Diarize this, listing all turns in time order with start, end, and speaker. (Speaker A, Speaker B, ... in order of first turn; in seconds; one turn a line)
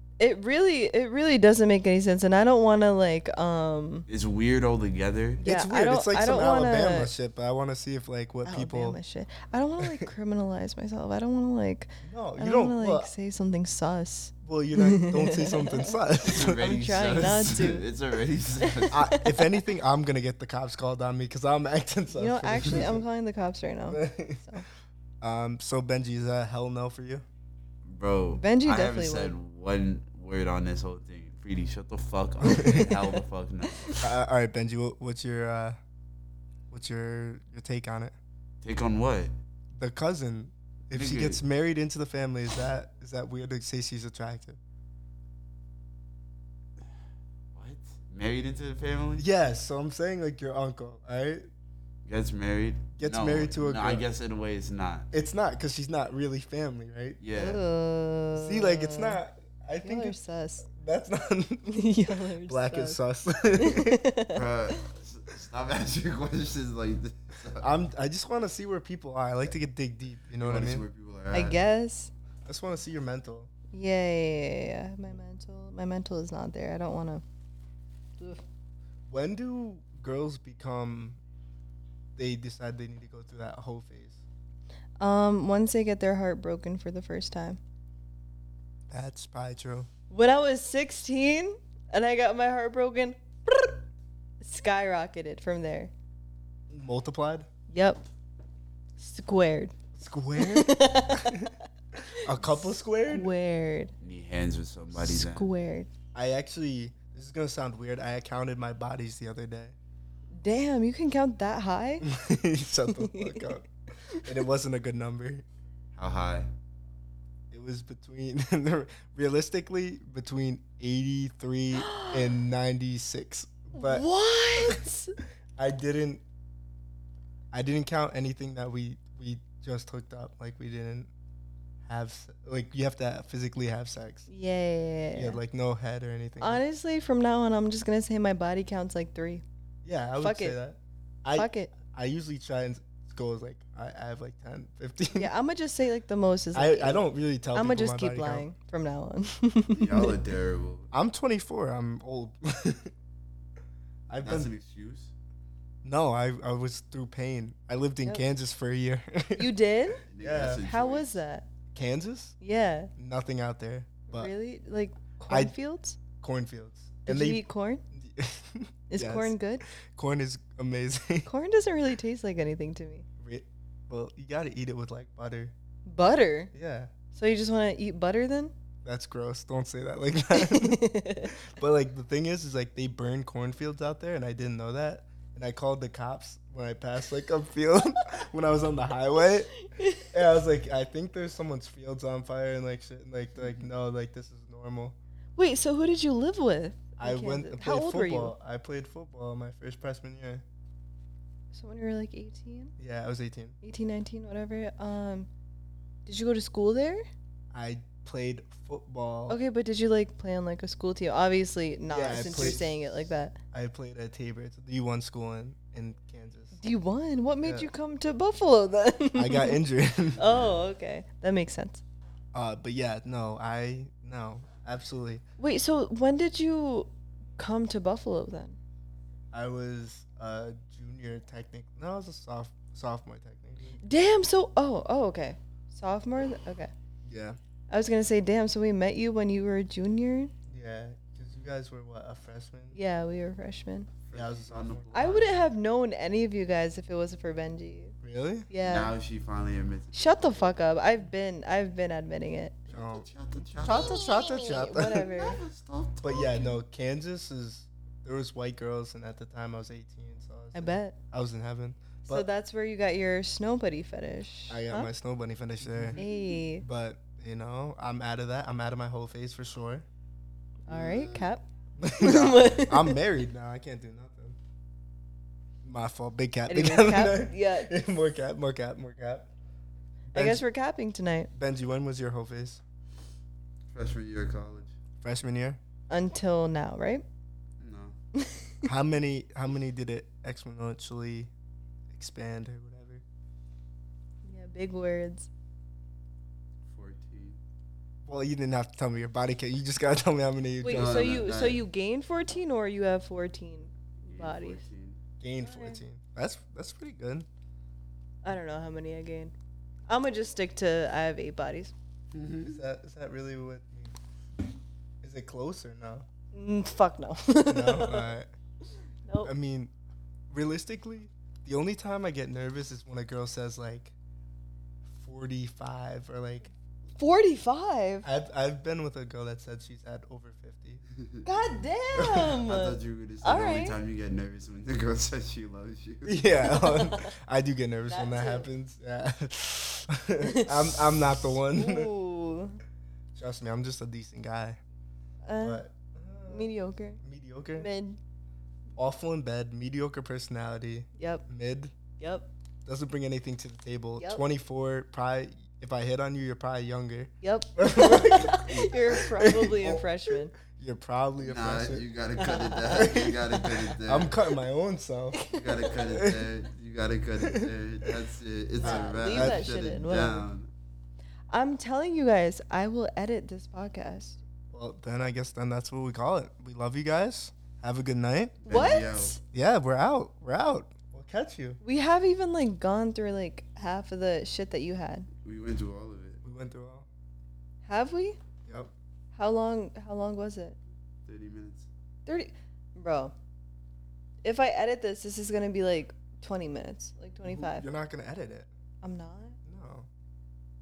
Speaker A: 0.2-4.1
Speaker B: 4.1-5.4
Speaker A: 5.4-7.1
Speaker C: 5.4-9.0
Speaker A: 8.4-15.9
Speaker C: 9.8-10.1
Speaker C: 12.0-13.1
Speaker C: 14.4-17.3
Speaker B: 16.2-19.0
Speaker A: 16.5-17.9
Speaker A: 18.6-19.5
Speaker C: 18.9-23.0
Speaker A: 22.1-24.6
Speaker C: 23.9-24.6
Speaker C: 25.2-27.2
Speaker B: 27.9-34.0
Speaker A: 28.3-29.3
Speaker C: 32.4-32.9
Speaker A: 32.5-33.1
Speaker A: 33.7-34.1
Speaker C: 34.0-35.8
Speaker C: 36.7-38.1
Speaker B: 38.6-39.3
Speaker C: 39.8-44.6
Speaker B: 40.9-41.4
Speaker B: 47.5-49.2
Speaker C: 49.2-51.5
Speaker B: 52.0-55.1
Speaker C: 53.0-54.0
Speaker C: 55.1-57.2
Speaker B: 57.2-57.6
Speaker A: 57.3-59.2
Speaker C: 58.4-60.2
Speaker A: 59.8-60.7
Speaker C: 60.7-61.8
Speaker A: 61.7-63.0
Speaker C: 62.5-64.0
Speaker A: 63.6-64.8
Speaker B: 64.3-67.7
Speaker C: 67.6-70.9
Speaker B: 70.4-71.6
Speaker A: 71.3-72.1
Speaker C: 72.5-73.5
Speaker A: 73.7-77.2
Speaker C: 79.1-81.2
Speaker C: 82.2-84.2
Speaker A: 85.0-87.6
Speaker C: 88.9-89.9
Speaker A: 90.1-93.8
Speaker A: 94.4-95.9
Speaker C: 96.7-97.5
Speaker A: 97.7-98.0
Speaker A: 99.0-99.7
Speaker C: 100.0-101.5
Speaker A: 100.4-101.5
Speaker C: 102.2-103.3
Speaker A: 103.1-103.9
Speaker B: 104.0-105.5
Speaker A: 104.9-105.9
Speaker C: 106.1-109.8
Speaker A: 110.4-112.0
Speaker C: 112.0-113.7
Speaker A: 112.9-113.6
Speaker C: 114.2-115.4
Speaker B: 116.0-116.5
Speaker C: 117.5-124.0
Speaker A: 121.7-122.4
Speaker A: 123.7-125.1
Speaker C: 124.6-124.8
Speaker C: 125.6-126.2
Speaker C: 127.5-131.1
Speaker C: 131.8-134.3
Speaker A: 134.3-135.4
Speaker C: 135.1-136.6
Speaker A: 136.4-139.4
Speaker C: 139.8-145.3
Speaker A: 140.2-140.6
Speaker A: 141.4-141.7
Speaker A: 145.2-150.2
Speaker C: 146.5-148.5
Speaker B: 149.7-150.9
Speaker C: 150.9-152.9
Speaker C: 154.1-154.5
Speaker B: 154.2-155.1
Speaker C: 155.8-159.5
Speaker A: 159.4-160.0
Speaker B: 160.1-161.2
Speaker C: 160.2-160.7
Speaker A: 160.6-161.5
Speaker C: 161.7-162.4
Speaker A: 162.4-162.9
Speaker C: 163.0-164.3
Speaker A: 164.1-166.0
Speaker C: 165.2-165.6
Speaker C: 166.1-167.4
Speaker A: 167.1-167.8
Speaker C: 167.9-171.3
Speaker A: 168.9-169.6
Speaker A: 171.3-173.1
Speaker C: 173.2-175.5
Speaker A: 175.9-176.5
Speaker C: 176.5-176.9
Speaker A: 177.1-178.5
Speaker C: 178.8-194.9
Speaker A: 180.3-181.3
Speaker A: 189.6-190.2
Speaker B: 193.4-193.7
Speaker A: 195.4-198.3
Speaker C: 197.0-200.4
Speaker A: 201.5-202.7
Speaker C: 202.8-203.6
Speaker A: 203.6-205.3
Speaker A: 206.1-207.1
Speaker C: 207.5-209.4
Speaker A: 209.3-213.4
Speaker C: 211.9-212.7
Speaker C: 213.5-216.6
Speaker A: 216.6-219.6
Speaker C: 217.4-217.7
Speaker C: 219.2-220.3
Speaker A: 220.2-221.8
Speaker B: 220.2-220.6
Speaker C: 222.3-225.2
Speaker A: 225.4-228.6
Speaker C: 229.3-233.8
Speaker A: 233.8-236.7
Speaker C: 237.1-237.4
Speaker A: 237.7-240.3
Speaker C: 240.5-242.8
Speaker A: 242.8-243.9
Speaker B: 244.1-245.4
Speaker C: 244.1-244.9
Speaker A: 244.9-247.9
Speaker C: 248.0-248.5
Speaker A: 248.5-248.9
Speaker B: 248.6-250.6
Speaker A: 249.9-252.6
Speaker C: 252.7-253.1
Speaker B: 252.7-254.4
Speaker A: 253.6-255.4
Speaker C: 253.6-255.1
Speaker B: 255.0-256.6
Speaker C: 256.0-262.3
Speaker A: 260.5-261.0
Speaker A: 262.1-264.9
Speaker C: 264.5-266.0
Speaker B: 265.6-266.3
Speaker A: 266.0-266.6
Speaker C: 266.6-269.9
Speaker A: 270.7-271.4
Speaker B: 270.7-271.3
Speaker C: 271.8-274.4
Speaker A: 272.0-273.0
Speaker C: 275.6-279.3
Speaker A: 276.5-277.7
Speaker C: 280.1-280.4
Speaker A: 280.1-281.3
Speaker C: 281.3-282.6
Speaker B: 283.7-284.8
Speaker C: 285.0-285.6
Speaker A: 285.9-287.0
Speaker B: 287.6-287.9
Speaker A: 288.1-288.7
Speaker C: 288.6-291.3
Speaker C: 291.9-293.0
Speaker A: 294.2-295.3
Speaker B: 296.7-297.4
Speaker C: 298.1-301.0
Speaker A: 300.6-304.6
Speaker B: 300.7-301.6
Speaker B: 304.0-305.0
Speaker C: 305.2-307.3
Speaker A: 305.4-305.8
Speaker A: 308.2-309.3
Speaker A: 309.9-311.7
Speaker B: 312.1-312.6
Speaker C: 312.4-313.9
Speaker C: 315.0-316.1
Speaker A: 316.3-318.1
Speaker C: 317.5-318.3
Speaker C: 319.2-319.7
Speaker C: 320.3-323.9
Speaker C: 325.0-326.5
Speaker A: 327.0-328.1
Speaker C: 328.0-330.8
Speaker B: 331.0-331.2
Speaker A: 331.3-333.8
Speaker C: 332.0-332.2
Speaker B: 332.0-336.2
Speaker C: 336.1-341.9
Speaker A: 336.4-337.1
Speaker A: 337.9-338.5
Speaker A: 340.2-340.8
Speaker A: 341.5-342.6
Speaker C: 343.1-344.6
Speaker A: 345.2-345.6
Speaker C: 345.4-347.7
Speaker A: 346.3-347.0
Speaker A: 347.6-348.0
Speaker C: 348.8-351.7
Speaker A: 351.0-351.2
Speaker A: 352.0-352.3
Speaker C: 352.7-361.9
Speaker A: 354.0-354.2
Speaker A: 357.2-360.3
Speaker B: 358.3-358.8
Speaker B: 361.2-364.1
Speaker A: 362.2-363.6
Speaker C: 362.7-363.2
Speaker C: 363.9-365.2
Speaker A: 365.1-365.8
Speaker B: 365.3-370.5
Speaker C: 365.8-366.2
Speaker C: 367.2-367.5
Speaker A: 368.6-370.3
Speaker C: 368.6-369.5
Speaker A: 371.3-374.2
Speaker C: 374.5-378.4
Speaker B: 378.4-379.2
Speaker A: 378.5-379.2
Speaker C: 379.3-381.6
Speaker A: 381.6-385.1
Speaker B: 385.2-386.2
Speaker C: 386.2-386.9
Speaker A: 387.6-388.2
Speaker A: 389.1-390.6
Speaker B: 391.1-391.7
Speaker A: 392.1-393.1
Speaker A: 394.2-397.7
Speaker C: 397.2-398.5
Speaker A: 398.8-399.4
Speaker C: 399.4-399.9